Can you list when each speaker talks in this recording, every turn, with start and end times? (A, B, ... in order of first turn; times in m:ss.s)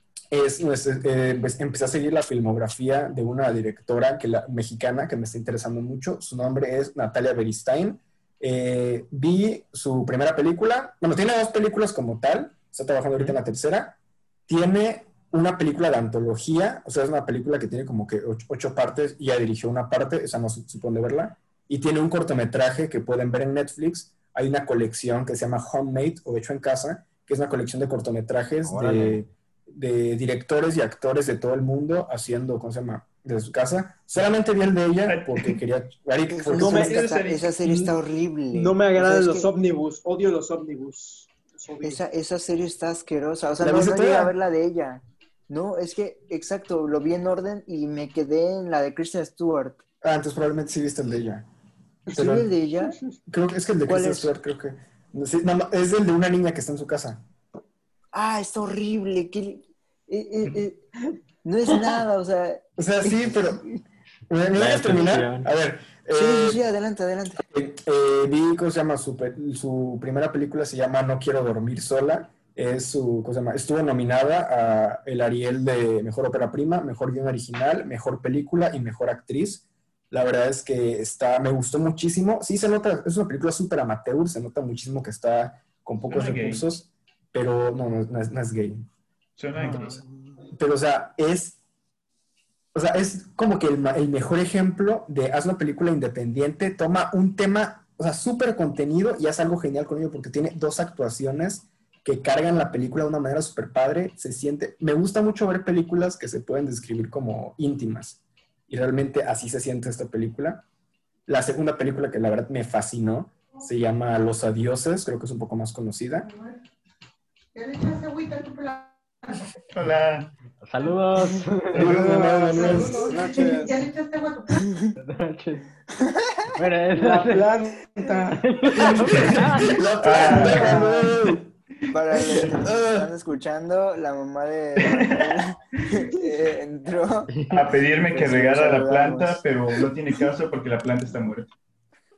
0:00.3-0:37.0 A
0:28.6-0:29.2 B
0:35.1-0:35.6 C
0:36.3-0:39.5 D
0:36.5-0:37.0 E
0:36.7-0:37.6 C
0:37.6-0:37.9 E
0:38.5-0:42.0 E
0:41.8-0:49.8 D
0:43.6-0:44.3 A
0:50.0-0:51.4 A
0:52.1-0:52.5 A
0:52.1-0:53.0 D
0:53.3-0:57.2 A
0:53.8-0:54.3 D
0:58.1-1:00.8 D
1:01.4-1:03.8 D
1:02.8-1:03.6 A
1:04.3-1:06.6 A
1:04.5-1:05.5 B
1:06.1-1:07.4 D
1:07.4-1:28.9 A
1:26.1-1:26.6 C
1:29.4-1:30.0 C
1:29.6-1:29.9 A
1:30.5-1:31.6 A
1:32.7-1:50.6 A
1:51.3-1:56.3 A
1:56.2-1:56.6 F
1:57.5-1:59.4 F
1:59.7-2:00.3 C
2:00.6-2:01.9 B
2:01.7-2:03.2 A
2:01.7-2:03.8 E
2:02.5-2:04.6 F
2:04.6-2:04.9 D
2:05.0-2:05.7 B
2:06.0-2:06.5 D
2:06.6-2:07.5 B
2:06.9-2:08.9 E
2:08.3-2:09.8 B
2:08.8-2:11.5 A
2:09.0-2:10.8 C
2:10.1-2:11.1 D
2:10.2-2:10.8 E
2:11.9-2:17.3 D
2:12.1-2:12.5 C
2:12.3-2:13.1 A
2:14.8-2:16.1 C
2:17.3-2:17.7 B
2:17.5-2:21.5 C
2:18.1-2:19.4 D